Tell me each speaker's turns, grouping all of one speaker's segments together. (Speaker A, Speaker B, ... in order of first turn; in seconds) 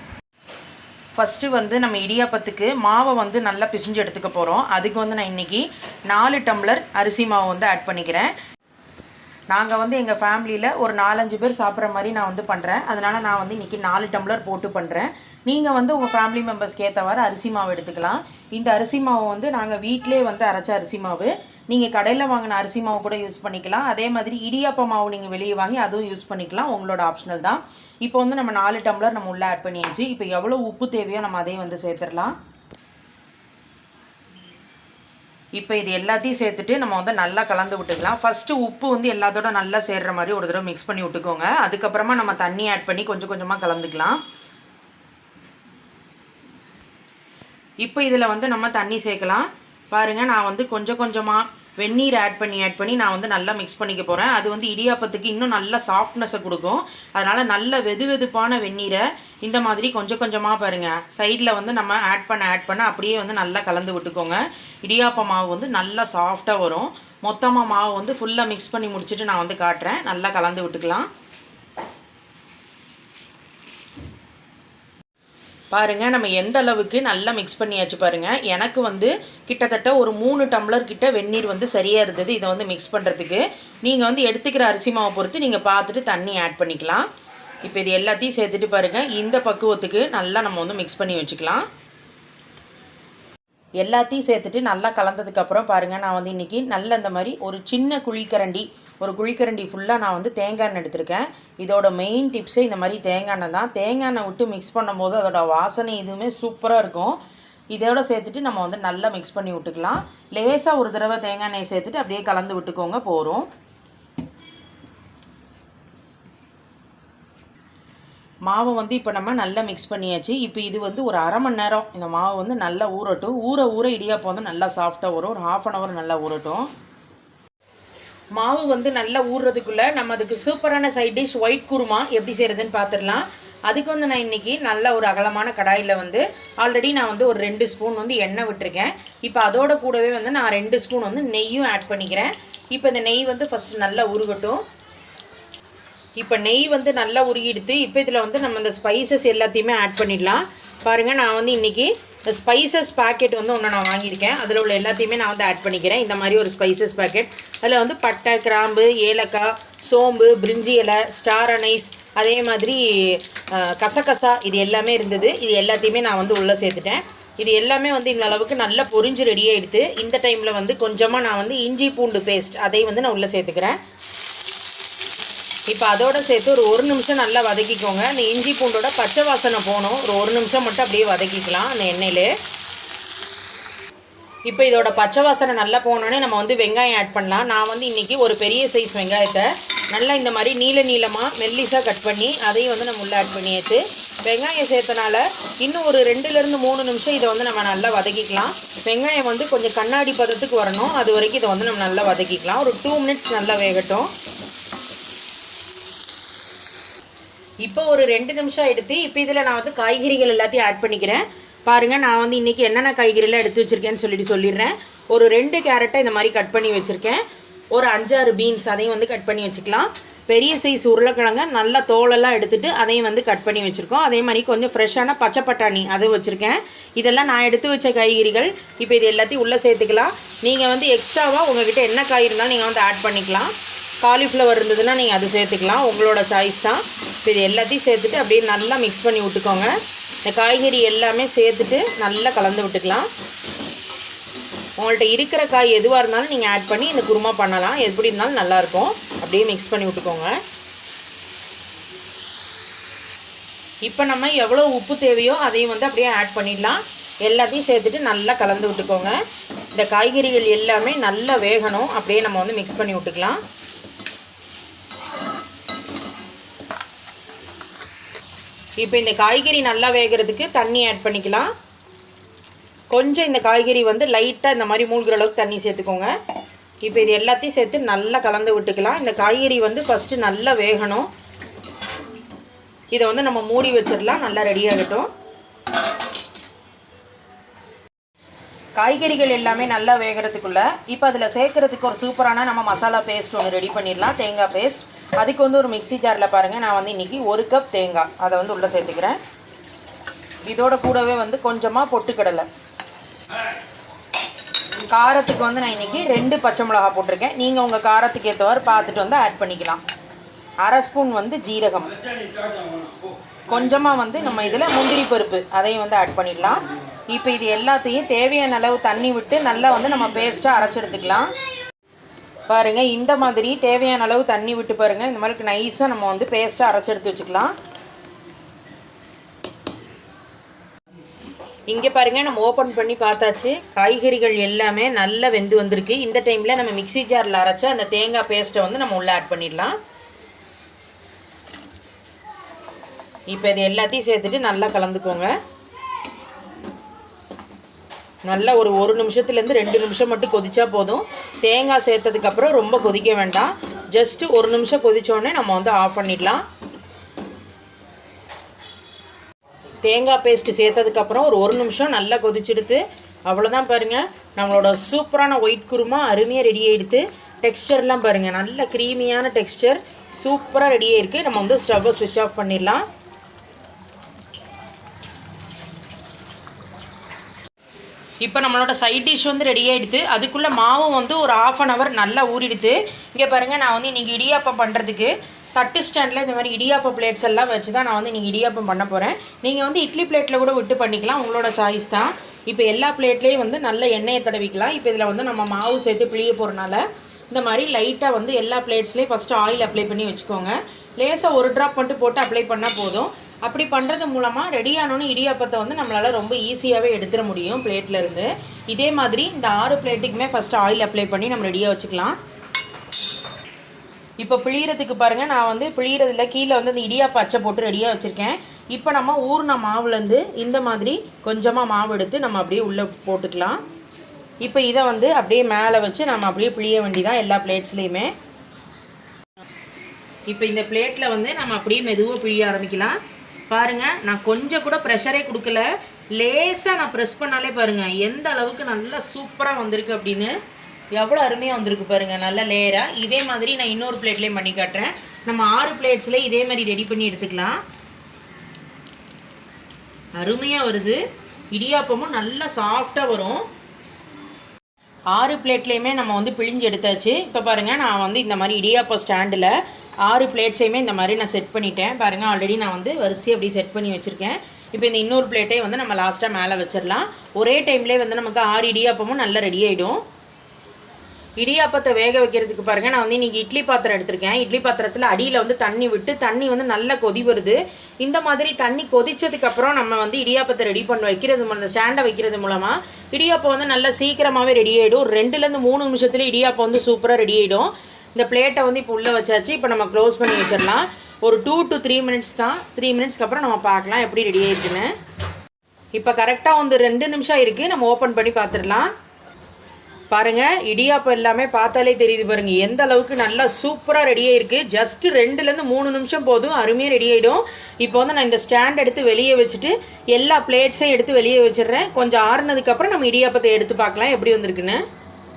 Speaker A: 1.1-8.3, 9.5-32.3, 35.5-44.2, 47.8-71.1, 75.7-87.1, 87.7-91.7, 93.8-107.2, 107.7-113.5, 118.5-126.7, 128.4-144.6, 146.2-173.8, 175.7-182.3, 184.5-204.1, 207.6-217.2, 217.7-239.7, 240.2-243.1, 244.8-250.4, 253.8-259.2, 259.8-263.4, 268.8-271.5, 272.9-276.1, 276.8-281.1, 282.9-285.1, 288.8-299.2, 300.5-302.5, 304.9-309.8, 310.6-311.9, 313.5-321.3, 322.5-327.5, 331.7-339.8, 343.3-345.3, 348.3-356.4, 359.8-372.9, 378.2-412.2, 414.2-423.6, 424.4-428.1, 430.3-433.0, 433.5-440.4, 440.9-447.6, 450.2-451.0, 451.5-453.5, 455.1-470.0, 471.4-494.9, 495.9-498.9, 500.1-514.8